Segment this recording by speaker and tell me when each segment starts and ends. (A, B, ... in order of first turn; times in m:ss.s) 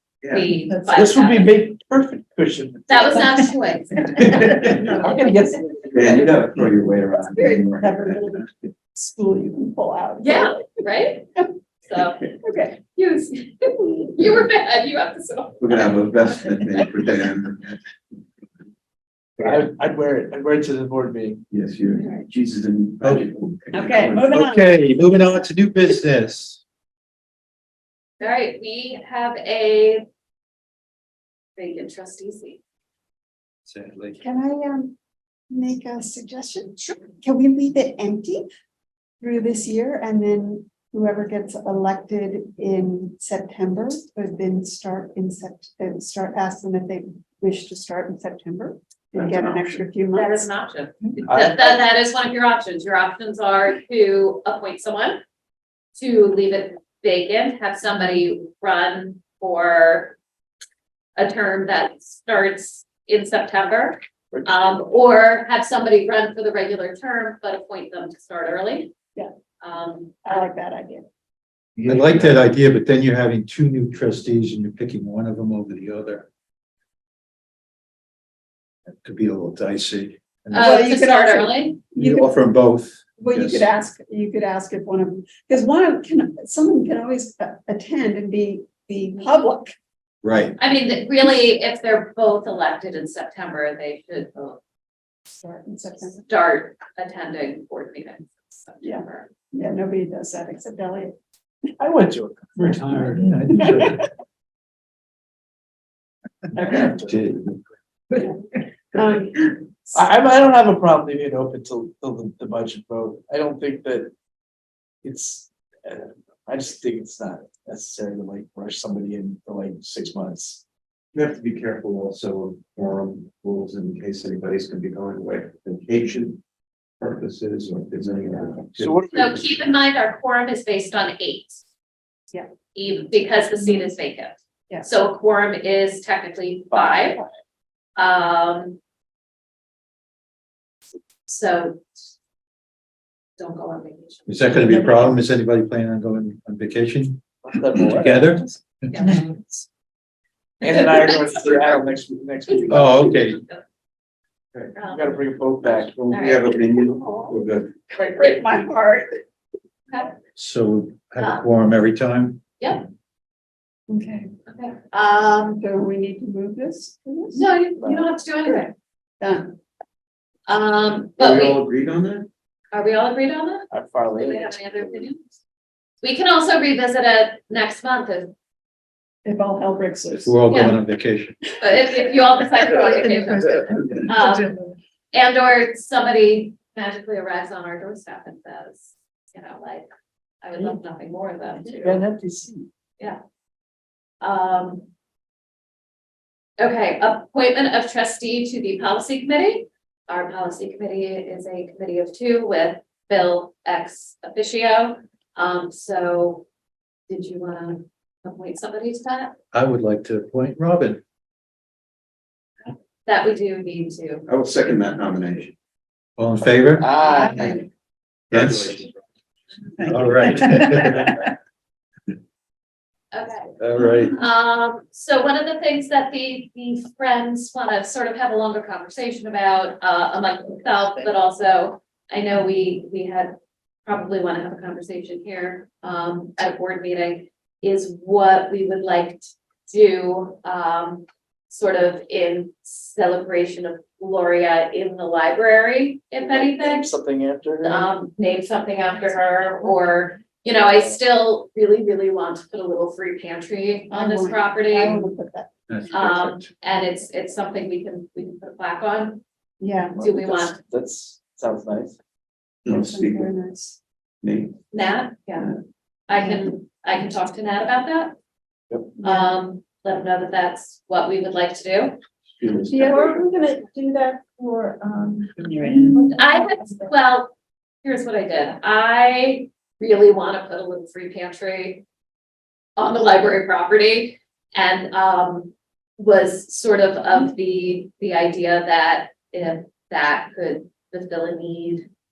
0:00.2-0:00.5 A
0:00.3-0:01.5 B
0:00.9-0:03.3 C
0:02.9-0:05.1 B
0:04.3-0:04.6 A
0:04.4-0:05.1 D
0:04.5-0:06.4 C
0:05.9-0:08.3 A
0:07.3-0:10.6 D
0:10.2-0:11.3 B
0:11.8-0:12.2 B
0:12.4-0:12.8 D
0:12.9-0:15.9 B
0:15.6-0:17.8 A
0:19.4-0:21.4 C
0:21.5-0:24.4 A
0:23.0-0:23.3 E
0:23.7-0:24.6 D
0:24.0-0:26.6 E
0:28.2-0:30.0 B
0:31.6-0:32.6 B
0:33.6-0:34.2 E
0:34.2-0:34.9 D
0:35.5-0:38.4 D
0:39.2-0:50.5 D
0:49.1-0:49.8 A
0:50.1-0:55.2 B
0:51.2-0:51.7 C
0:55.9-1:00.2 B
1:01.2-1:08.9 B
1:09.6-1:10.2 B
1:10.2-1:11.0 D
1:11.8-1:12.3 A
1:11.8-1:16.3 E
1:19.0-1:20.7 E
1:20.5-1:21.8 B
1:20.5-1:22.3 D
1:21.9-1:23.6 E
1:23.2-1:29.7 D
1:30.2-1:30.6 E
1:30.6-1:34.6 B
1:35.3-1:36.2 D
1:36.2-1:39.3 B
1:38.8-1:41.1 D
1:41.8-1:43.0 C
1:42.6-1:44.0 E
1:43.5-1:43.9 D
1:46.5-1:47.1 C
1:46.9-1:47.6 E
1:48.9-1:50.0 D
1:49.9-1:54.1 C
1:55.0-2:00.6 C
2:01.1-2:06.4 A
2:07.0-2:09.3 A
2:08.8-2:09.4 C
2:09.1-2:11.6 B
2:12.7-2:17.2 B
2:13.6-2:13.9 D
2:16.7-2:17.2 C
2:18.0-2:18.8 B
2:21.3-2:21.9 B
2:23.4-2:25.1 B
2:24.3-2:27.2 E
2:27.4-2:28.4 C
2:27.8-2:29.4 E
2:28.9-2:29.1 B
2:30.6-2:33.1 C
2:32.5-2:33.6 B
2:32.7-2:33.4 E
2:34.8-2:35.1 B
2:34.8-2:36.0 C
2:35.7-2:37.7 A
2:36.1-2:36.5 B
2:36.9-2:37.3 D
2:37.9-2:39.2 D
2:40.4-2:42.4 E
2:41.2-2:41.4 B
2:42.6-2:42.8 B
2:43.9-2:44.3 D
2:44.5-2:45.6 B
2:45.6-2:48.0 D
2:47.3-2:48.7 B
2:49.2-2:49.5 D
2:50.5-2:51.6 B
2:51.2-2:52.3 A
2:52.7-2:55.2 B
2:53.7-2:54.9 C
2:56.0-2:58.3 B
2:59.2-3:00.5 D
3:00.2-3:01.4 E
3:00.5-3:00.8 B
3:01.6-3:04.6 B
3:03.4-3:03.9 D
3:05.1-3:09.9 B
3:10.4-3:12.0 B
3:11.7-3:12.7 C
3:14.2-3:14.8 B
3:16.6-3:26.4 B
3:27.1-3:29.4 B
3:29.5-3:31.0 E
3:33.0-3:34.2 B
3:34.2-3:35.5 A
3:36.2-3:36.9 E
3:36.8-3:37.6 C
3:37.0-3:37.7 D
3:38.3-3:38.9 A
3:38.3-3:38.8 E
3:39.8-3:41.2 E
3:43.1-4:06.9 B
3:43.6-3:44.2 E
4:06.2-4:07.9 C
4:07.6-4:15.1 B
4:13.9-4:15.5 D
4:15.7-4:16.4 E
4:15.9-4:19.2 B
4:19.6-4:20.0 D
4:19.9-4:22.0 C
4:20.0-4:20.6 B
4:22.6-4:23.3 A
4:22.7-4:23.8 D
4:24.2-4:24.5 A
4:24.7-4:28.1 B
4:29.0-4:29.3 D
4:29.0-4:32.0 B
4:32.4-4:33.1 A
4:32.7-4:36.9 D
4:36.0-4:37.3 B
4:37.8-4:41.8 B
4:42.8-4:51.9 B